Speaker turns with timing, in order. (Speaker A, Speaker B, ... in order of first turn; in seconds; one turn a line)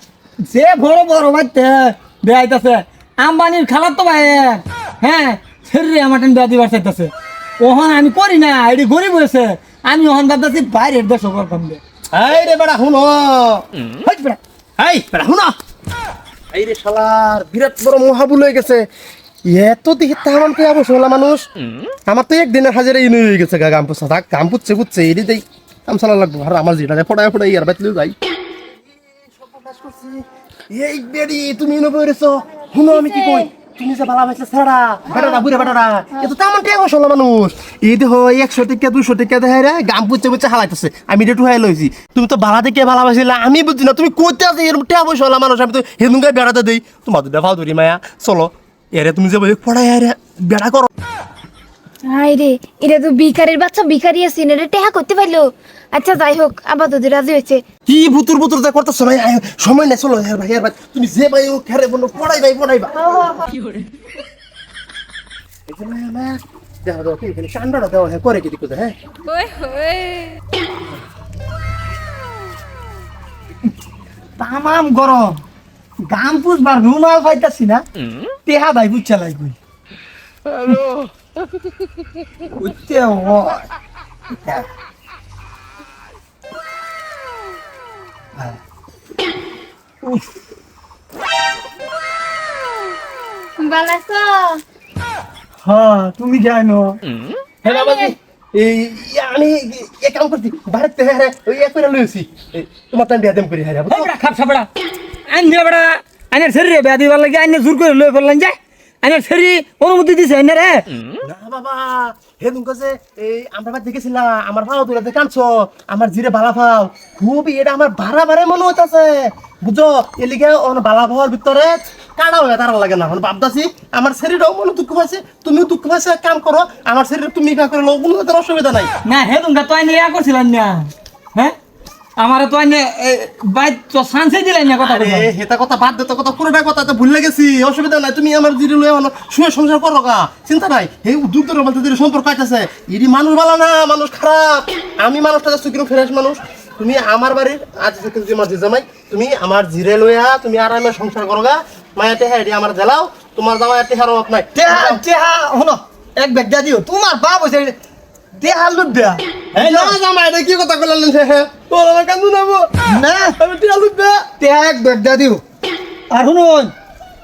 Speaker A: 0.5-11.8
Speaker B: 12.1-13.7
Speaker A: 14.1-14.4
Speaker B: 14.8-15.6
Speaker B: 16.5-18.9
Speaker B: 19.5-21.5
Speaker B: 22.1-28.1
Speaker B: 28.9-50.9
Speaker C: 52.1-57.6
Speaker B: 57.9-63.4
Speaker B: 65.7-69.0
Speaker A: 74.4-75.4
Speaker A: 76.1-77.8
Speaker A: 78.5-79.6
Speaker A: 82.5-83.7
Speaker C: 93.6-94.6
Speaker A: 95.6-97.0
Speaker C: 97.7-98.1
Speaker B: 97.7-104.1
Speaker A: 103.9-104.7
Speaker A: 105.3-110.8
Speaker B: 111.2-128.9
Speaker A: 129.1-131.6
Speaker A: 132.2-135.3
Speaker B: 134.8-155.0
Speaker A: 154.6-157.8
Speaker A: 158.4-159.9
Speaker B: 159.5-162.7
Speaker A: 162.9-163.4
Speaker B: 163.4-164.3
Speaker A: 164.4-165.4
Speaker A: 166.1-166.7